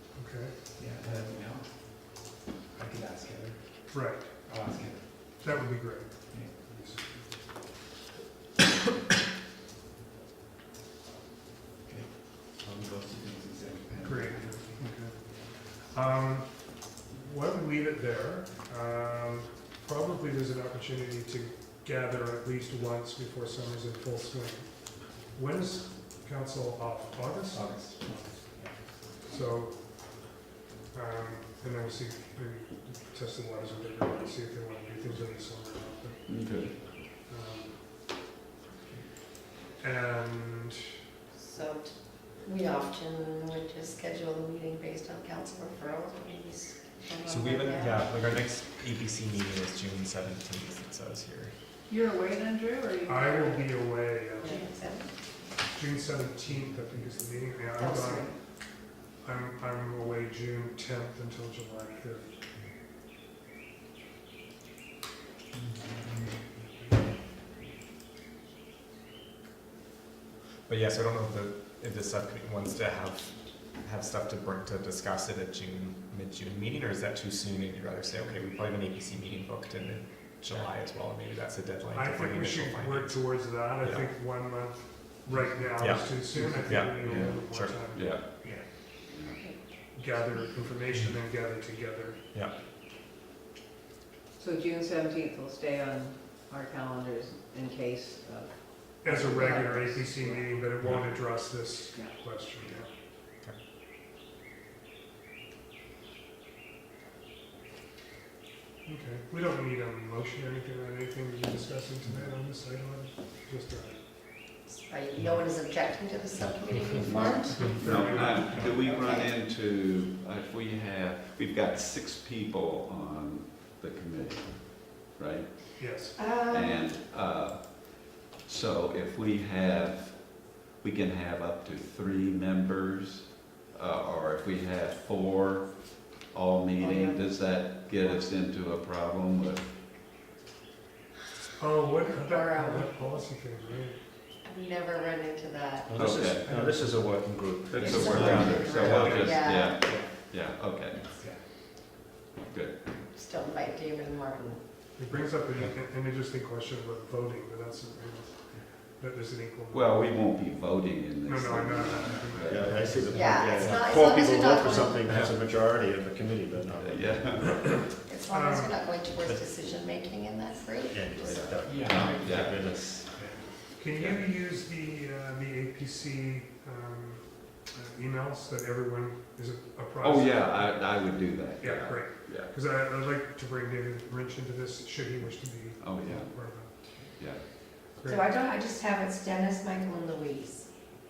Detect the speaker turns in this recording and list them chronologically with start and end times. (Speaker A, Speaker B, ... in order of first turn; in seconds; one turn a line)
Speaker A: 0.1-0.6
Speaker B: 0.8-2.2
Speaker B: 2.8-3.6
Speaker A: 3.9-4.3
Speaker B: 4.5-5.0
Speaker A: 5.4-7.1
Speaker B: 11.9-14.8
Speaker A: 14.0-27.7
Speaker B: 27.5-29.1
Speaker A: 29.2-30.3
Speaker A: 30.9-38.1
Speaker C: 36.3-36.9
Speaker A: 39.8-40.9
Speaker D: 41.3-48.1
Speaker E: 47.2-51.5
Speaker F: 51.9-53.8
Speaker A: 53.0-54.9
Speaker D: 54.4-55.1
Speaker A: 55.6-62.4
Speaker D: 57.8-58.4
Speaker B: 65.6-66.4
Speaker E: 70.7-84.1
Speaker A: 82.0-88.2
Speaker B: 85.3-86.7
Speaker E: 85.8-87.8
Speaker C: 87.0-89.4
Speaker D: 89.4-89.6
Speaker A: 89.9-92.2
Speaker F: 94.4-100.5
Speaker A: 99.0-102.9
Speaker F: 101.9-102.3
Speaker A: 108.8-114.0
Speaker D: 114.7-117.7
Speaker C: 117.1-125.8
Speaker A: 117.5-119.0
Speaker D: 118.8-119.3
Speaker A: 125.8-126.2
Speaker D: 126.2-127.0
Speaker C: 126.5-139.7
Speaker D: 136.8-137.2
Speaker A: 141.6-144.0
Speaker D: 142.2-143.2
Speaker D: 144.4-145.9
Speaker G: 145.9-149.3
Speaker C: 145.9-146.7
Speaker C: 147.7-151.0
Speaker D: 147.8-149.8
Speaker E: 148.1-148.6
Speaker B: 151.1-151.4
Speaker C: 152.5-152.8
Speaker D: 153.1-154.6
Speaker A: 155.0-160.1
Speaker E: 155.2-155.7
Speaker C: 159.7-162.9
Speaker A: 161.2-163.1
Speaker B: 162.1-162.4
Speaker G: 162.5-167.8
Speaker B: 163.0-163.3
Speaker D: 163.1-165.0
Speaker E: 165.1-165.3
Speaker C: 166.7-167.8
Speaker D: 167.9-171.5
Speaker A: 168.3-168.8
Speaker G: 170.9-173.1
Speaker C: 171.2-172.7
Speaker B: 171.7-172.2
Speaker B: 173.1-173.5
Speaker A: 173.8-180.9
Speaker C: 173.9-174.2
Speaker C: 180.0-182.5
Speaker A: 181.6-186.8
Speaker C: 185.8-187.4
Speaker A: 188.0-188.2
Speaker D: 188.1-190.7